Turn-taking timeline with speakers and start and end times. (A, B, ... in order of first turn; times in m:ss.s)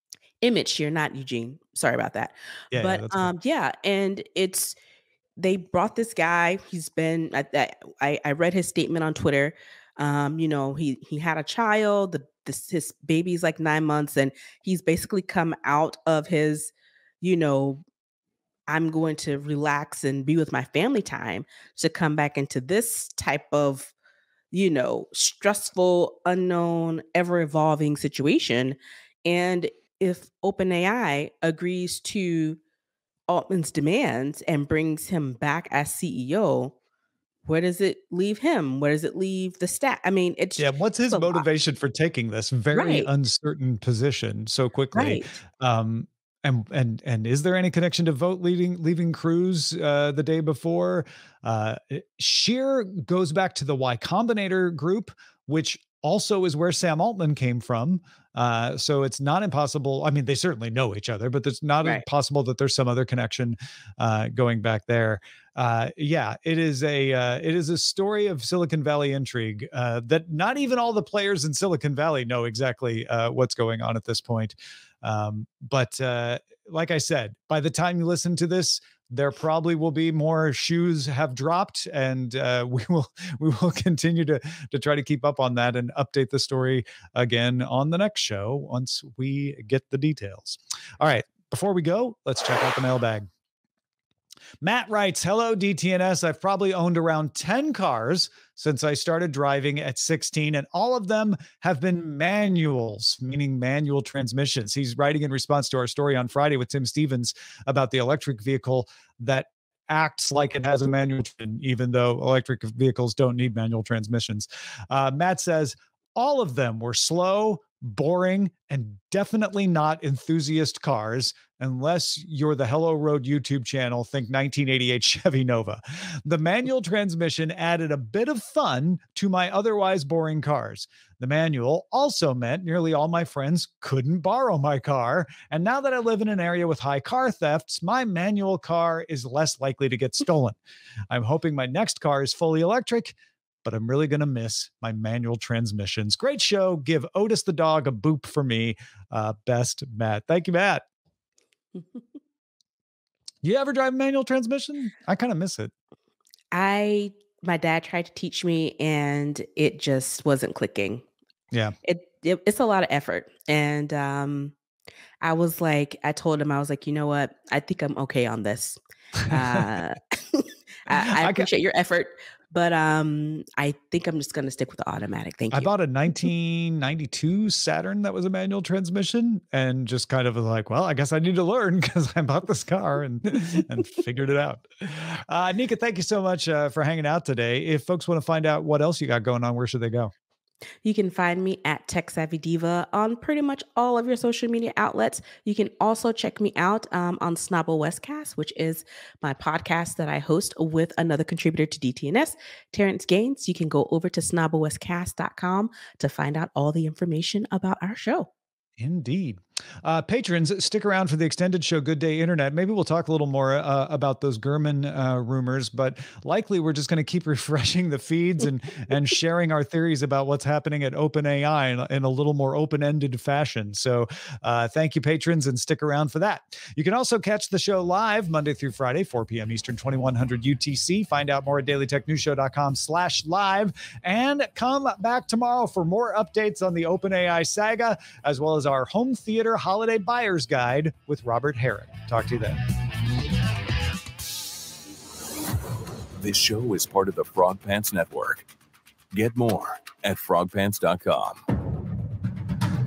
0:00.4-0:04.8 A
0:02.7-0:03.3 B
0:05.4-0:17.8 A
0:18.7-0:23.9 A
0:24.5-0:32.6 A
0:33.3-0:36.8 A
0:37.4-0:41.4 A
0:40.6-1:33.3 B
0:42.7-0:43.1 A
0:44.9-0:45.2 A
1:34.6-2:20.6 B
2:21.1-2:30.8 B
2:33.4-2:35.7 B
2:36.5-2:41.0 A
2:41.8-2:44.5 A
2:45.2-2:55.7 A
2:50.9-2:51.5 B
2:55.5-3:10.1 B
3:10.8-3:28.3 A
3:28.8-4:02.6 B
4:06.2-4:08.5 C
4:09.1-4:11.4 C